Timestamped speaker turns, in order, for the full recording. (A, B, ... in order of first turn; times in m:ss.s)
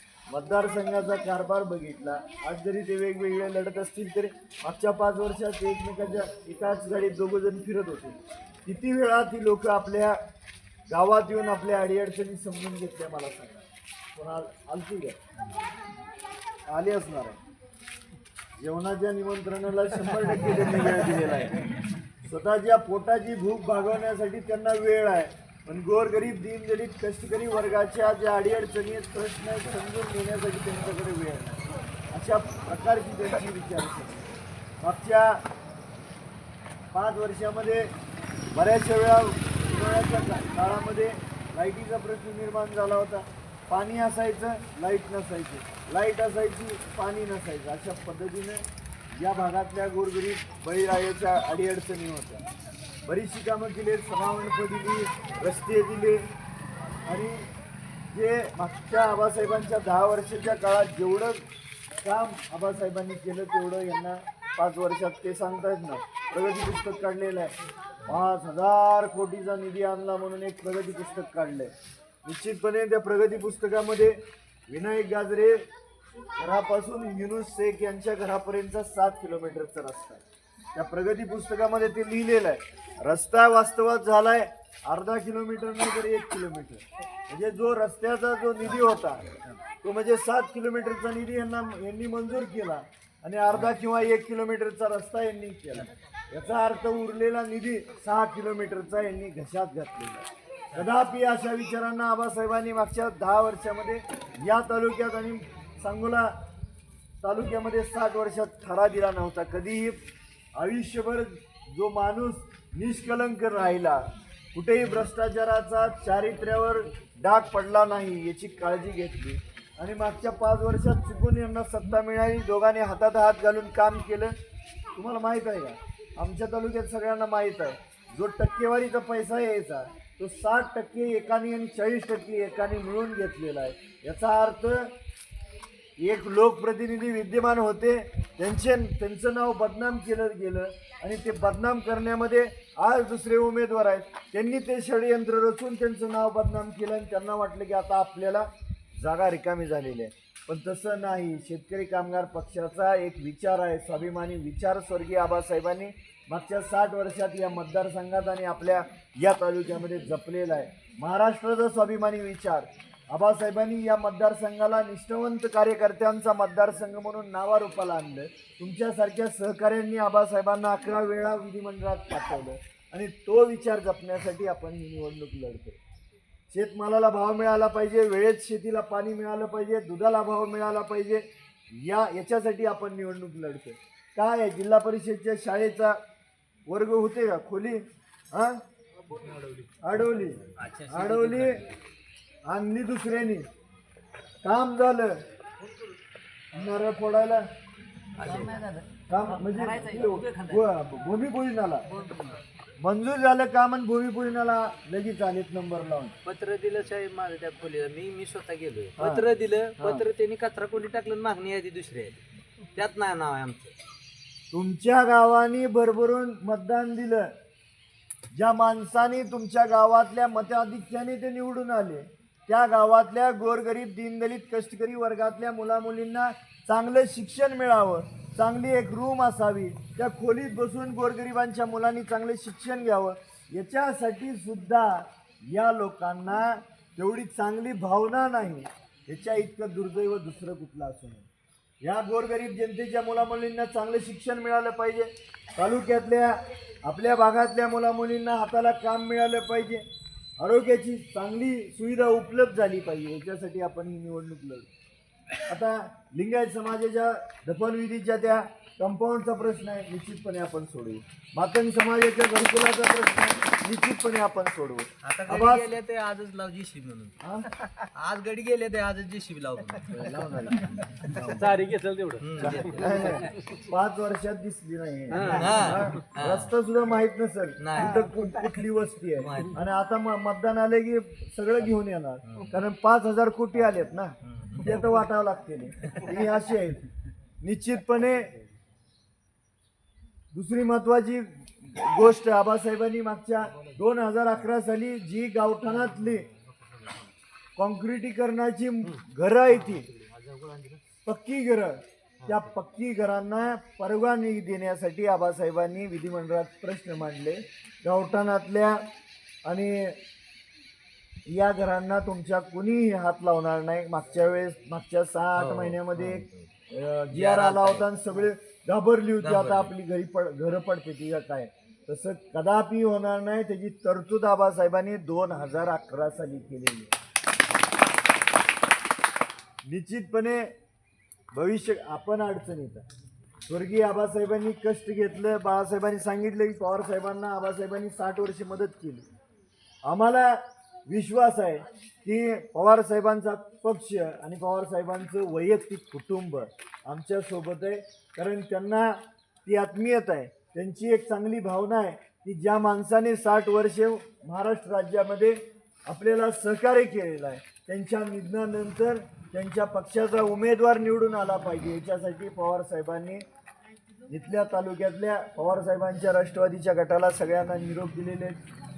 0:00.3-0:10.2 A
0:10.9-0:15.2 A
0:16.7-0:17.4 A
0:18.6-0:34.3 A
0:34.8-0:35.4 A
0:36.9-0:37.9 A
0:38.5-0:52.5 A
0:53.0-0:56.3 A
0:57.1-0:57.5 A
0:58.1-1:01.4 A
1:02.0-1:07.5 A
1:08.0-1:11.7 A
1:12.2-1:15.7 A
1:16.4-1:46.4 A
1:47.2-1:50.0 A
1:50.6-2:04.4 A
2:05.0-2:14.9 A
2:16.0-2:55.8 A
2:56.5-3:06.0 A
3:06.7-3:08.6 A
3:09.2-3:09.6 B
3:09.8-3:11.6 A
3:10.5-3:11.8 C
3:12.5-3:13.5 A
3:14.4-3:15.2 A
3:16.5-3:17.4 A
3:18.2-3:20.7 C
3:19.1-3:21.9 A
3:21.9-3:22.4 C
3:22.8-3:26.2 A
3:26.2-3:32.2 C
3:29.0-3:29.2 A
3:29.8-3:30.0 A
3:32.8-3:33.7 C
3:34.5-3:37.3 A
3:38.3-4:01.3 A
4:01.8-4:09.8 A
4:10.4-4:14.7 A
4:15.4-4:25.7 A
4:25.0-4:30.2 C
4:27.2-4:27.5 A
4:29.9-4:31.5 A
4:31.0-4:31.6 C
4:31.2-4:32.7 B
4:32.2-4:33.4 C
4:32.4-4:46.9 A
4:35.2-4:35.4 B
4:35.2-4:36.5 C
4:37.6-4:38.3 C
4:39.1-4:39.6 C
4:42.3-4:42.6 C
4:44.4-4:44.7 C
4:47.4-4:48.4 A
4:50.3-4:56.3 A
4:56.4-4:56.9 B
4:57.6-4:59.9 A
4:59.5-5:00.8 C
5:01.1-5:08.9 A
5:09.4-5:10.0 A
5:11.3-5:26.9 A
5:15.4-5:16.5 C
5:17.1-5:17.9 C
5:19.2-5:19.7 C
5:29.6-5:30.5 A
5:31.3-5:32.8 A
5:33.5-5:39.1 A
5:39.8-6:03.2 A
6:04.1-6:08.4 A